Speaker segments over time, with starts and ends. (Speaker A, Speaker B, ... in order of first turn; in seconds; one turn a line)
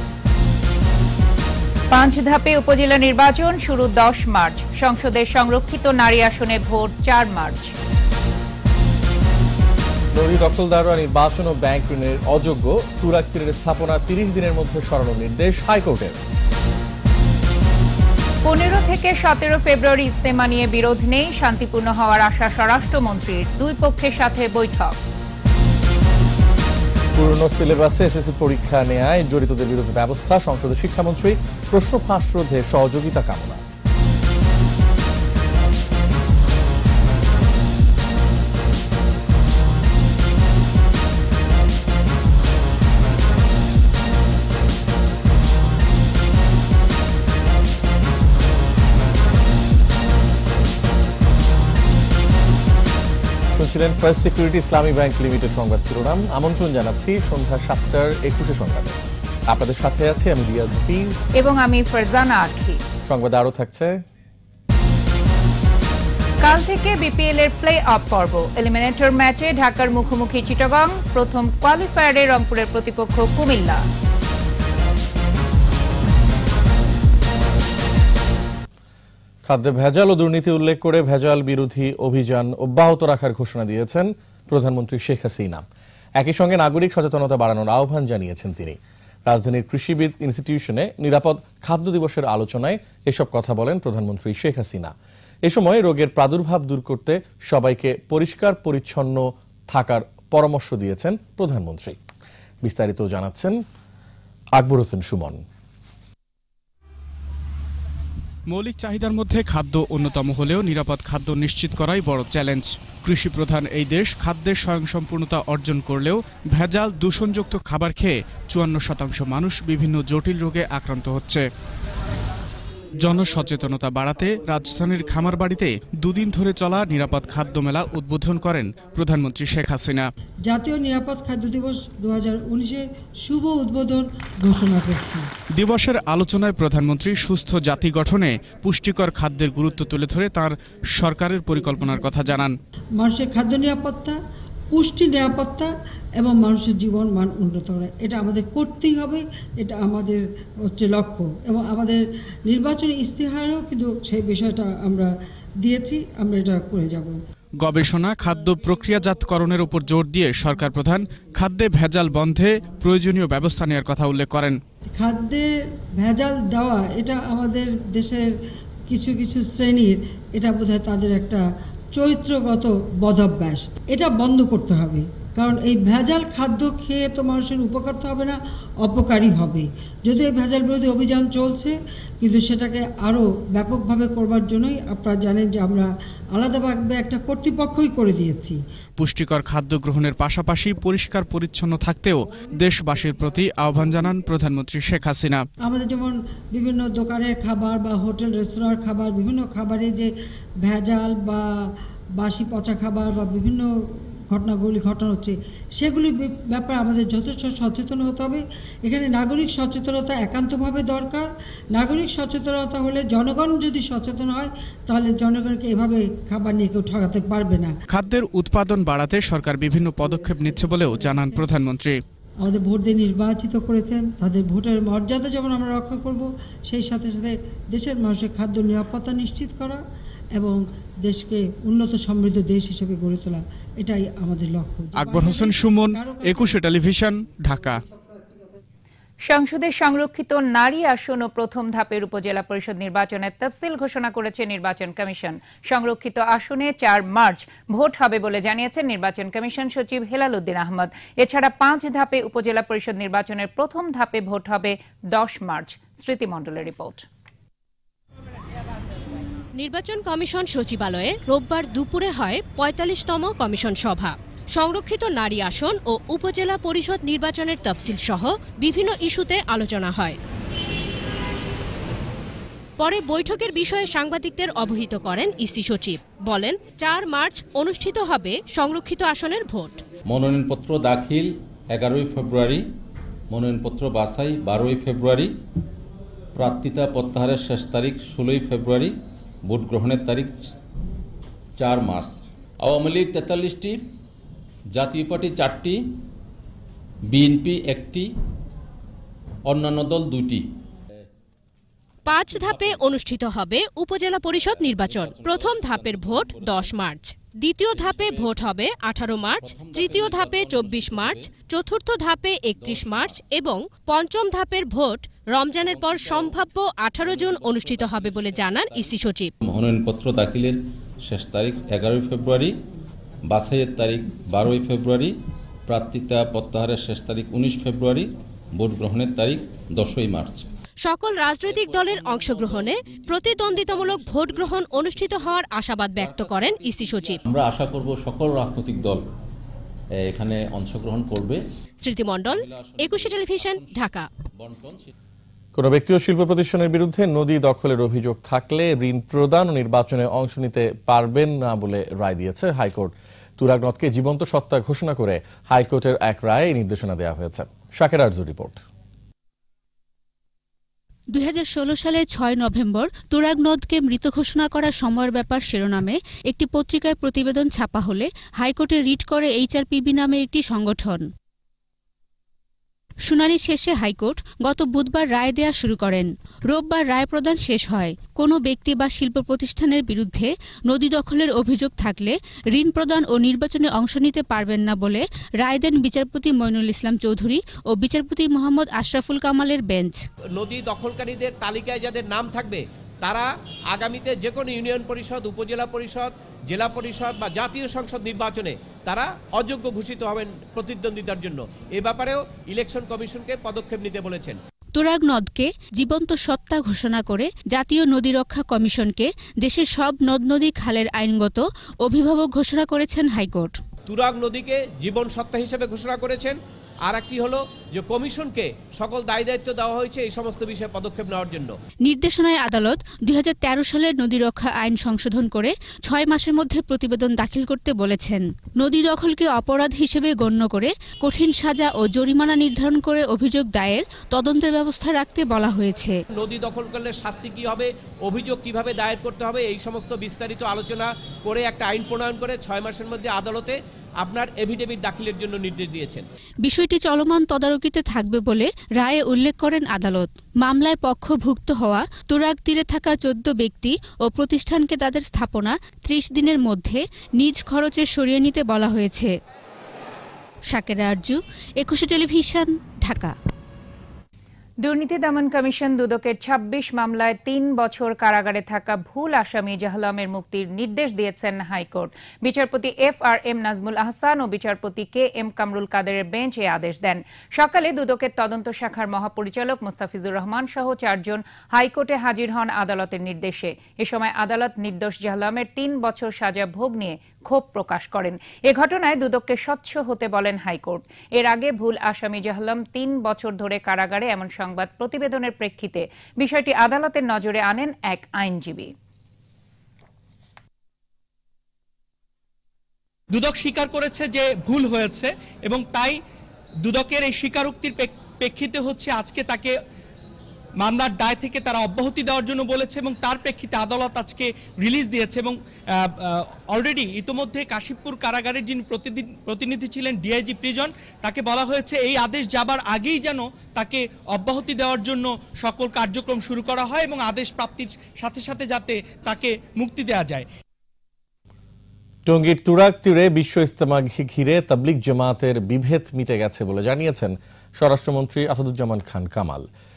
Speaker A: 1.9-7.7
Speaker B: 10.1-16.2
Speaker A: 18.4-25.0
Speaker B: 27.1-33.6
Speaker B: 53.5-59.0
Speaker B: 59.5-61.2
Speaker A: 61.4-62.8
Speaker B: 63.0-64.0
Speaker A: 66.4-73.8
Speaker B: 79.5-85.7
Speaker B: 86.2-94.9
Speaker B: 95.4-102.0
Speaker B: 102.6-103.6
Speaker B: 104.5-105.4
Speaker C: 108.5-121.4
Speaker C: 123.0-130.1
Speaker D: 130.5-135.3
Speaker C: 135.5-142.5
Speaker D: 143.0-144.2
Speaker D: 144.7-155.1
Speaker D: 155.6-157.1
Speaker C: 157.6-164.6
Speaker D: 165.0-168.2
Speaker D: 168.9-171.4
Speaker D: 171.9-188.6
Speaker C: 189.0-195.4
Speaker D: 195.6-200.1
Speaker D: 200.6-201.4
Speaker D: 202.2-203.7
Speaker D: 204.3-217.7
Speaker C: 217.9-222.0
Speaker D: 222.4-229.8
Speaker D: 230.3-236.6
Speaker C: 234.9-237.8
Speaker A: 239.3-257.0
Speaker E: 259.6-270.2
Speaker E: 272.8-279.8
Speaker F: 280.1-282.6
Speaker F: 283.3-285.3
Speaker F: 286.3-288.9
Speaker F: 289.4-290.3
Speaker F: 291.6-293.8
Speaker F: 294.7-295.8
Speaker F: 297.1-298.1
Speaker F: 299.5-300.5
Speaker E: 302.1-319.3
Speaker F: 302.3-302.8
Speaker F: 304.4-306.7
Speaker F: 307.7-308.5
Speaker F: 309.4-311.3
Speaker F: 312.6-313.2
Speaker F: 315.6-316.4
Speaker F: 317.0-322.6
Speaker F: 323.3-325.1
Speaker F: 325.7-330.4
Speaker E: 330.8-337.2
Speaker F: 331.4-335.4
Speaker F: 335.9-339.0
Speaker F: 340.0-341.4
Speaker E: 341.8-344.1
Speaker F: 342.3-343.7
Speaker F: 344.4-344.9
Speaker B: 345.6-358.6
Speaker G: 361.1-371.1
Speaker G: 373.1-390.0
Speaker H: 390.4-404.4
Speaker G: 404.8-413.6
Speaker H: 413.9-421.5
Speaker G: 421.9-436.0
Speaker H: 436.1-446.0
Speaker G: 446.4-459.1
Speaker G: 460.5-463.1
Speaker A: 464.6-498.7
Speaker I: 503.1-506.0
Speaker I: 506.6-509.5
Speaker I: 510.6-530.3
Speaker B: 532.0-539.5